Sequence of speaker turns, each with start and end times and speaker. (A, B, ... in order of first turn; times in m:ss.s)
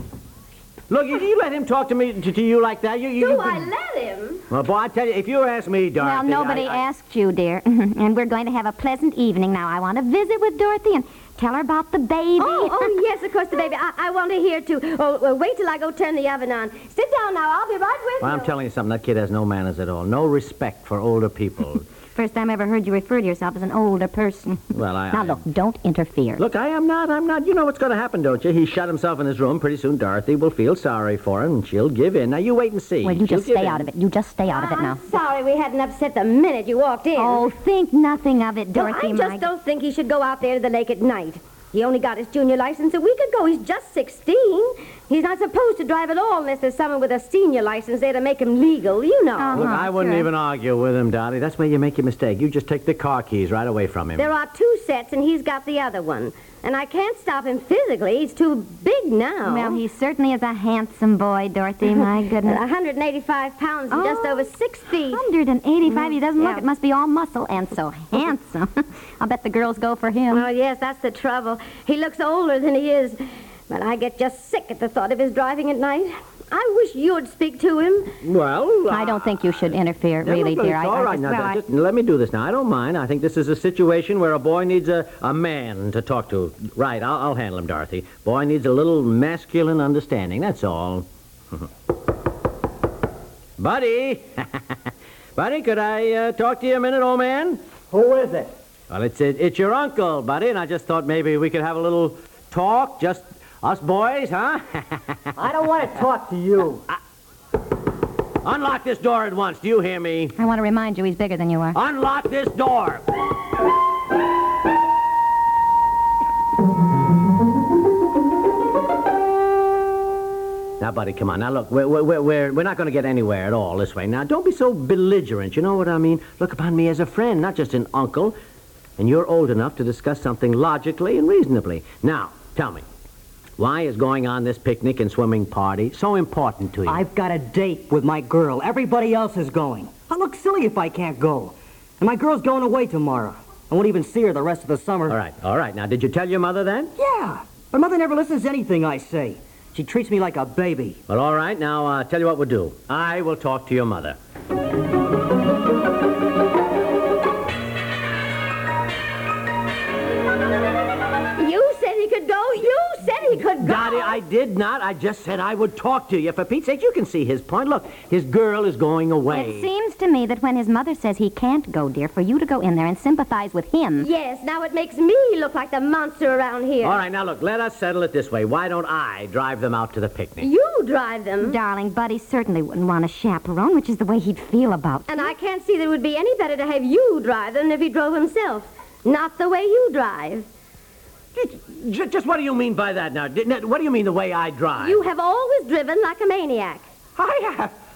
0:00.9-0:03.7 A
0:03.2-0:04.4 B
0:04.5-0:06.8 A
0:06.0-0:12.9 C
0:12.4-0:18.5 B
0:18.2-0:21.8 A
0:22.2-0:26.4 C
0:24.7-0:25.4 A
0:26.4-0:33.9 A
0:33.0-0:35.0 C
0:34.5-0:37.4 B
0:37.2-0:39.5 C
0:38.7-0:49.6 B
0:49.4-0:50.3 C
0:49.5-0:54.3 A
0:54.2-0:59.8 B
0:59.4-1:02.6 C
1:02.4-1:05.2 B
1:03.9-1:04.5 C
1:05.1-1:10.5 C
1:05.9-1:06.6 B
1:10.3-1:18.1 B
1:18.2-1:31.7 A
1:18.9-1:21.6 C
1:33.6-1:34.8 A
1:35.4-1:37.6 A
1:37.9-1:38.5 D
1:38.9-1:45.2 A
1:45.4-1:46.8 D
1:48.4-1:50.4 A
1:50.4-1:51.8 C
1:51.7-1:53.1 A
2:00.8-2:08.4 A
2:09.0-2:12.8 A
2:13.6-2:17.0 A
2:16.9-2:25.2 D
2:25.1-2:26.9 A
2:27.0-2:31.0 D
2:31.1-2:34.2 A
2:41.4-2:44.2 B
2:43.6-2:49.7 A
2:49.3-2:54.1 C
2:54.0-2:57.0 B
2:56.8-3:00.5 A
3:00.4-3:01.6 B
3:01.4-3:05.3 C
3:05.1-3:10.5 B
3:11.4-3:15.0 A
3:14.8-3:16.9 B
3:17.2-3:17.7 A